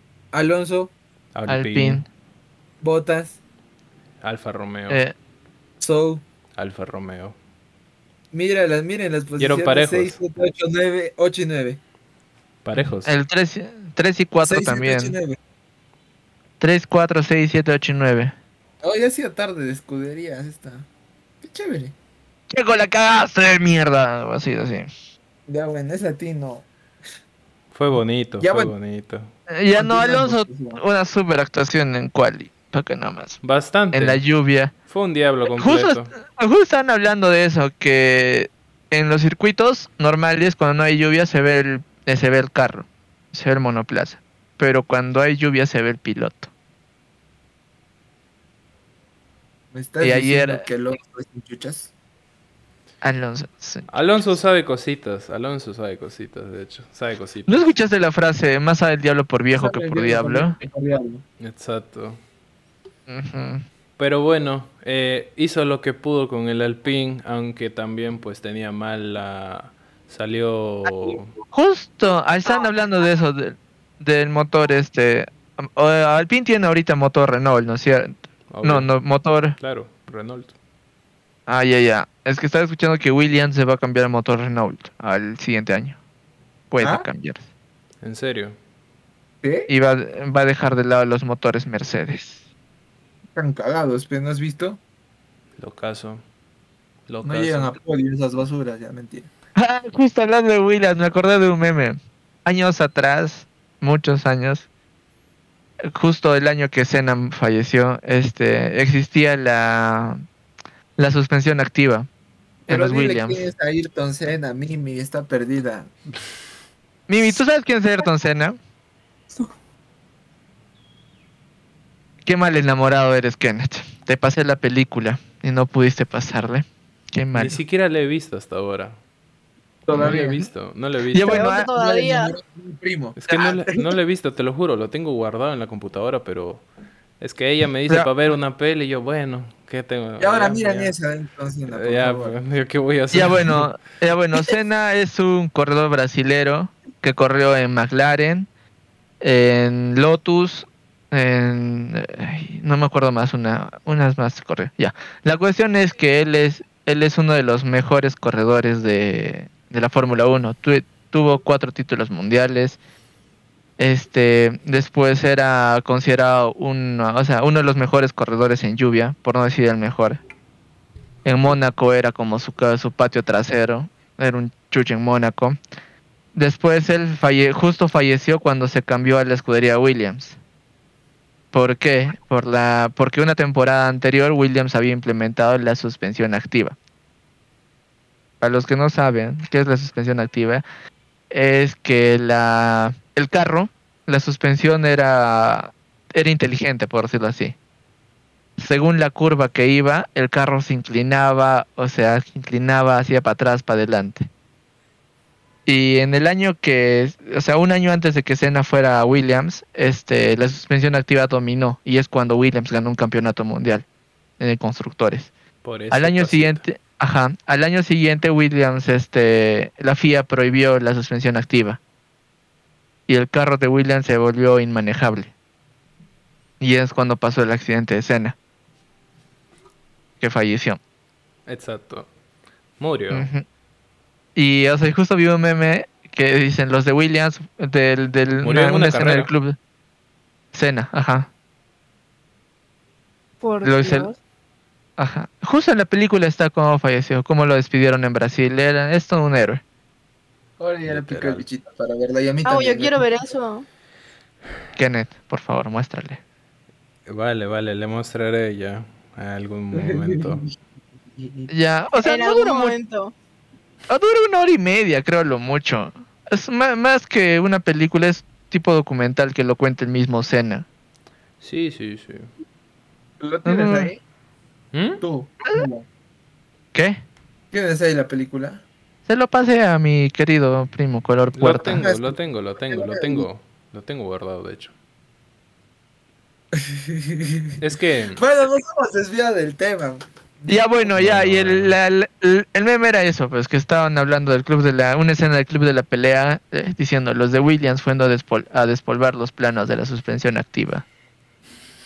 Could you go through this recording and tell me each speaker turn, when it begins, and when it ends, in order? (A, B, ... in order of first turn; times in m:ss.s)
0:00.3-0:00.9 A
0:01.3-0:02.0 B
0:01.5-0:02.0 C
0:02.8-0:03.4 A
0:04.2-0:05.0 B
0:04.9-0:05.1 C
0:05.8-0:06.2 A
0:06.6-0:07.4 B
0:08.3-0:11.8 A
0:09.4-0:10.2 B
0:12.6-0:13.2 B
0:13.0-0:15.2 C
0:14.4-0:15.4 A
0:16.6-0:18.3 C
0:18.8-0:20.9 A
0:21.4-0:21.9 A
0:22.5-0:24.9 C
0:25.5-0:26.7 A
0:27.7-0:29.3 B
0:28.4-0:28.7 A
0:29.5-0:33.4 C
0:29.7-0:30.8 A
0:33.4-0:34.2 B
0:33.9-0:34.7 C
0:34.9-0:36.1 B
0:35.5-0:46.5 C
0:49.7-0:51.9 A
0:50.0-0:50.6 C
0:53.0-0:53.9 C
0:53.9-0:57.7 B
0:57.5-1:00.6 C
0:59.5-1:01.2 A
1:01.4-1:02.2 B
1:03.1-1:03.6 C
1:04.0-1:11.3 B
1:11.5-1:19.6 C
1:18.5-1:18.9 B
1:19.6-1:20.5 B
1:21.5-1:26.0 C
1:26.7-1:27.4 C
1:26.8-1:27.0 A
1:28.0-1:28.6 B
1:29.4-1:29.7 A
1:29.7-1:32.4 C
1:33.3-1:34.8 A
1:35.6-1:36.2 B
1:37.1-1:37.7 B
1:37.2-1:39.3 A
1:39.6-1:44.6 C
1:45.8-1:50.2 C
1:51.0-1:52.1 C
1:52.7-1:53.4 C
1:52.7-1:55.9 A
1:57.1-1:58.6 C
2:02.2-2:07.6 C
2:07.3-2:09.0 B
2:09.9-2:10.4 A
2:09.9-2:11.4 B
2:11.1-2:11.7 C
2:11.2-2:12.3 D
2:11.7-2:13.9 A
2:13.2-2:16.6 B
2:17.2-2:20.9 B
2:20.2-2:22.4 A
2:21.7-2:23.7 B
2:23.1-2:28.5 C
2:29.2-2:42.8 C
2:43.8-2:50.2 C
2:51.2-2:55.6 C
2:56.3-3:00.4 C
3:01.5-3:06.8 C
3:08.4-3:10.6 C
3:11.3-3:17.6 C
3:18.6-3:24.3 C
3:25.6-3:33.8 C
3:34.4-3:35.3 C
3:35.6-3:36.6 B
3:35.9-3:41.8 C
3:43.1-3:45.3 C
3:46.6-3:48.4 C
3:50.2-3:50.8 C
3:51.5-3:52.1 B
3:52.8-3:53.3 B
3:53.1-3:53.4 C
3:54.4-3:59.6 C
3:58.4-3:59.3 B
4:00.5-4:01.3 C
4:03.4-4:04.2 D
4:03.6-4:04.1 C
4:05.0-4:09.6 C
4:10.6-4:13.0 A
4:10.9-4:11.4 B
4:12.4-4:13.6 D
4:14.8-4:16.2 C
4:17.1-4:20.4 B
4:19.7-4:20.6 A
4:21.2-4:21.5 A
4:21.5-4:22.7 C
4:22.0-4:23.1 D
4:23.9-4:30.6 C
4:31.4-4:32.3 B
4:33.2-4:34.0 A
4:33.4-4:33.9 C
4:34.7-4:35.0 B
4:35.0-4:35.8 A
4:36.7-4:37.0 C
4:37.5-4:38.6 A
4:39.0-4:41.8 C
4:41.3-4:44.7 B
4:41.7-4:43.2 A
4:46.5-4:47.6 A
4:47.6-4:48.2 B
4:48.2-4:50.7 A
4:50.5-5:00.8 C
4:50.9-4:51.7 B